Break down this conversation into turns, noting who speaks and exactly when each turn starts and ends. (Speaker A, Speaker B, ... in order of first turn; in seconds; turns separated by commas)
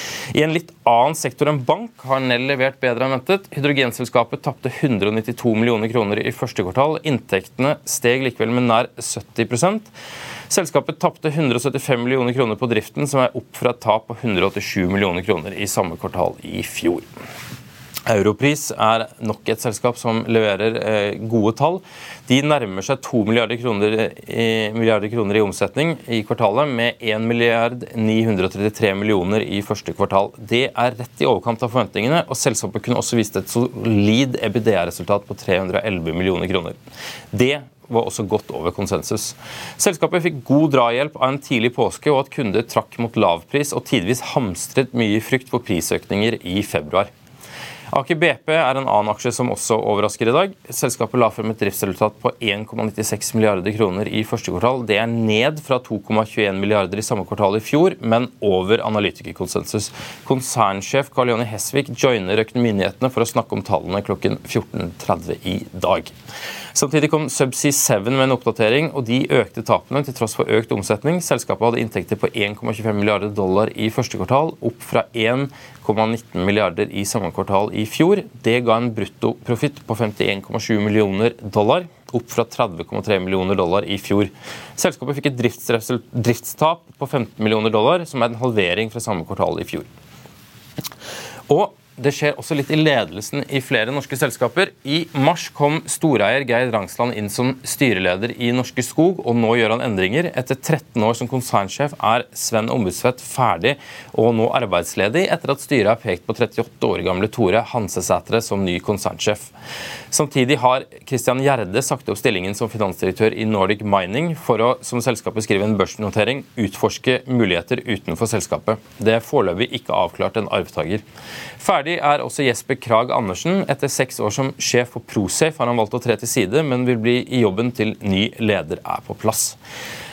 Speaker A: 0.3-9.9, Speaker A: 10.5-17.0, Speaker A: 18.1-36.8, Speaker A: 37.3-47.1, Speaker A: 47.9-66.1, Speaker A: 66.7-89.9, Speaker A: 91.5-109.5, Speaker A: 110.1-121.0, Speaker A: 121.6-129.6